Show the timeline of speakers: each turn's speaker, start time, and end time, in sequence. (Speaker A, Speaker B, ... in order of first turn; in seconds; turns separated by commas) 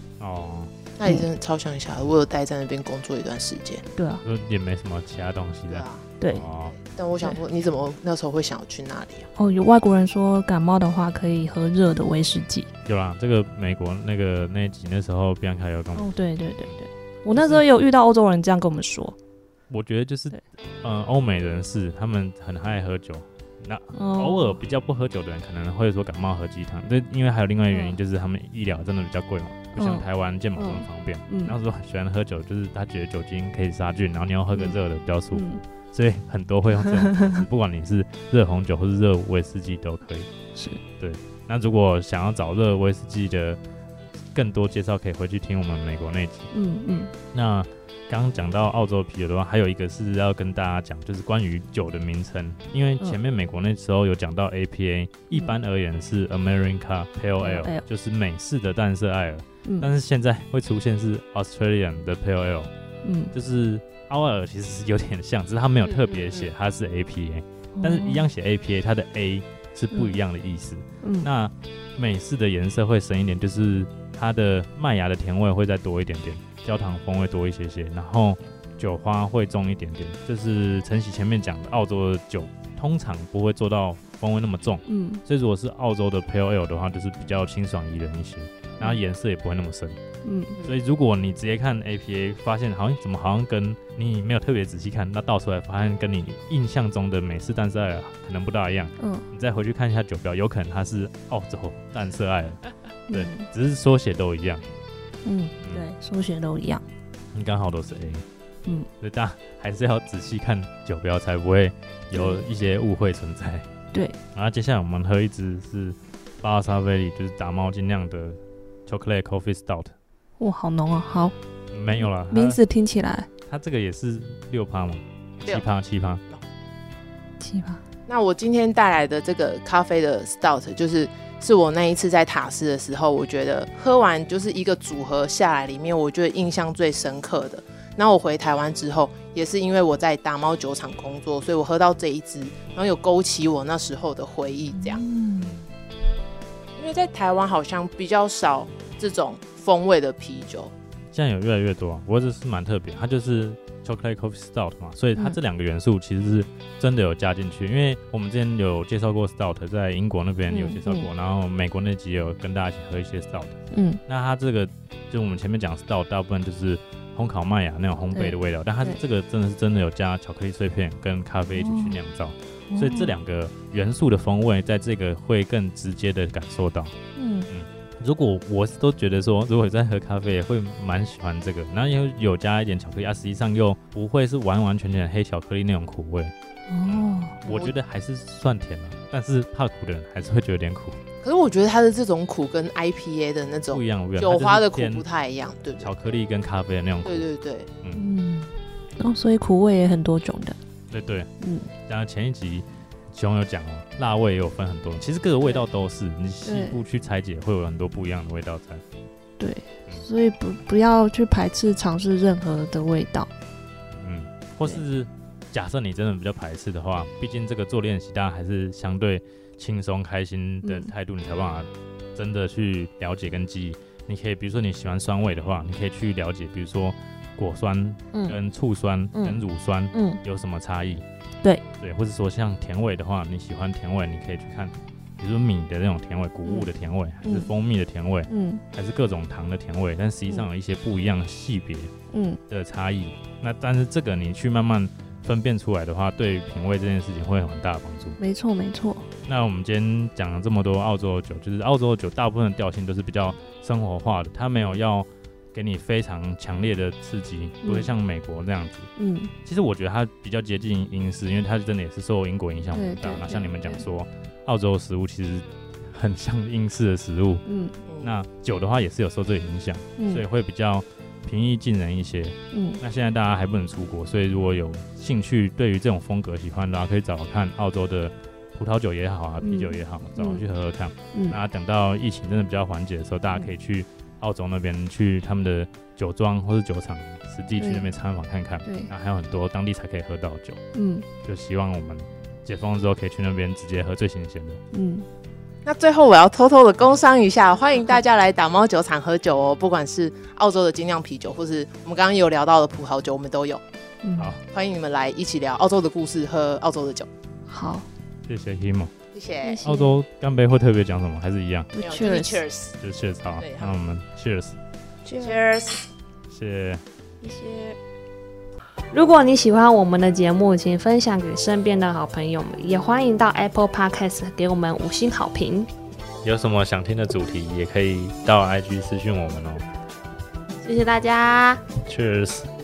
Speaker A: 0.2-0.7, Speaker B: 1.0-3.8, Speaker C: 4.0-4.2, Speaker A: 4.2-6.7, Speaker B: 5.7-6.1, Speaker B: 6.7-9.3, Speaker C: 9.4-12.7, Speaker A: 12.8-16.1, Speaker C: 15.9-19.1, Speaker A: 19.7-40.3, Speaker C: 23.9-24.6, Speaker C: 27.7-28.0, Speaker C: 29.8-30.1, Speaker C: 30.6-31.5, Speaker C: 35.3-35.6, Speaker C: 36.8-37.4, Speaker C: 40.5-40.8, Speaker A: 41.0-43.6, Speaker A: 44.3-46.5, Speaker C: 46.5-47.1, Speaker A: 47.3-62.7, Speaker C: 57.4-57.8, Speaker C: 59.6-59.9, Speaker C: 63.0-63.3, Speaker A: 63.3-90.0, Speaker B: 65.8-66.5, Speaker C: 67.7-68.2, Speaker C: 71.0-71.3, Speaker C: 84.9-85.2, Speaker C: 90.2-90.6, Speaker A: 90.6-104.6, Speaker C: 99.0-99.2, Speaker C: 103.1-103.5, Speaker C: 105.2-106.8, Speaker A: 107.3-108.2, Speaker A: 109.0-113.7, Speaker C: 112.1-112.4, Speaker C: 113.9-114.2, Speaker A: 114.3-119.9, Speaker C: 120.4-121.3, Speaker A: 121.7-122.6, Speaker C: 122.0-123.3, Speaker A: 123.5-126.2, Speaker C: 127.4-127.8, Speaker B: 128.1-145.0, Speaker C: 144.7-145.5, Speaker A: 145.4-145.7, Speaker B: 146.8-150.7, Speaker A: 151.1-163.5, Speaker C: 160.5-161.1, Speaker C: 163.7-164.0, Speaker A: 164.1-176.9, Speaker C: 168.1-169.0, Speaker C: 171.5-172.0, Speaker C: 172.7-173.1, Speaker C: 177.2-177.5, Speaker A: 177.5-186.3, Speaker C: 186.7-187.6, Speaker A: 186.8-191.0, Speaker B: 187.5-187.7, Speaker B: 191.2-195.9, Speaker A: 193.7-195.0, Speaker A: 195.8-197.2, Speaker B: 197.0-197.7, Speaker C: 197.9-200.6, Speaker A: 200.9-201.3, Speaker C: 201.4-201.7, Speaker A: 201.8-208.8, Speaker C: 206.4-206.8, Speaker C: 209.4-213.3, Speaker A: 213.9-231.0, Speaker C: 220.6-220.9, Speaker C: 229.1-229.4, Speaker C: 229.9-230.2, Speaker A: 231.8-241.9, Speaker C: 236.4-236.7, Speaker C: 237.2-237.5, Speaker C: 238.3-238.6, Speaker C: 242.1-242.4, Speaker A: 242.5-248.2, Speaker C: 248.2-249.1, Speaker A: 249.2-258.9, Speaker C: 257.6-257.9, Speaker C: 259.0-259.3, Speaker A: 259.4-267.4, Speaker C: 262.7-263.8, Speaker C: 267.4-267.8, Speaker B: 267.8-268.1, Speaker A: 268.0-290.6, Speaker C: 270.0-270.2, Speaker C: 272.5-272.8, Speaker C: 279.4-280.4, Speaker C: 281.1-281.4, Speaker C: 287.6-287.9, Speaker C: 288.6-288.9, Speaker C: 290.7-291.1, Speaker A: 291.2-294.6, Speaker C: 294.7-295.1, Speaker B: 295.6-303.6, Speaker C: 304.0-304.3, Speaker B: 304.5-307.1, Speaker C: 307.5-307.9, Speaker A: 308.3-308.9, Speaker B: 309.1-309.6, Speaker C: 309.4-310.0, Speaker A: 309.6-311.7, Speaker C: 311.7-312.4, Speaker B: 311.8-312.8, Speaker A: 312.8-314.6, Speaker B: 313.4-313.7, Speaker C: 315.0-315.4, Speaker B: 315.2-315.8, Speaker A: 316.3-316.8, Speaker C: 317.2-317.8, Speaker C: 318.9-325.7, Speaker A: 326.2-329.6, Speaker C: 330.6-331.6, Speaker A: 331.8-332.5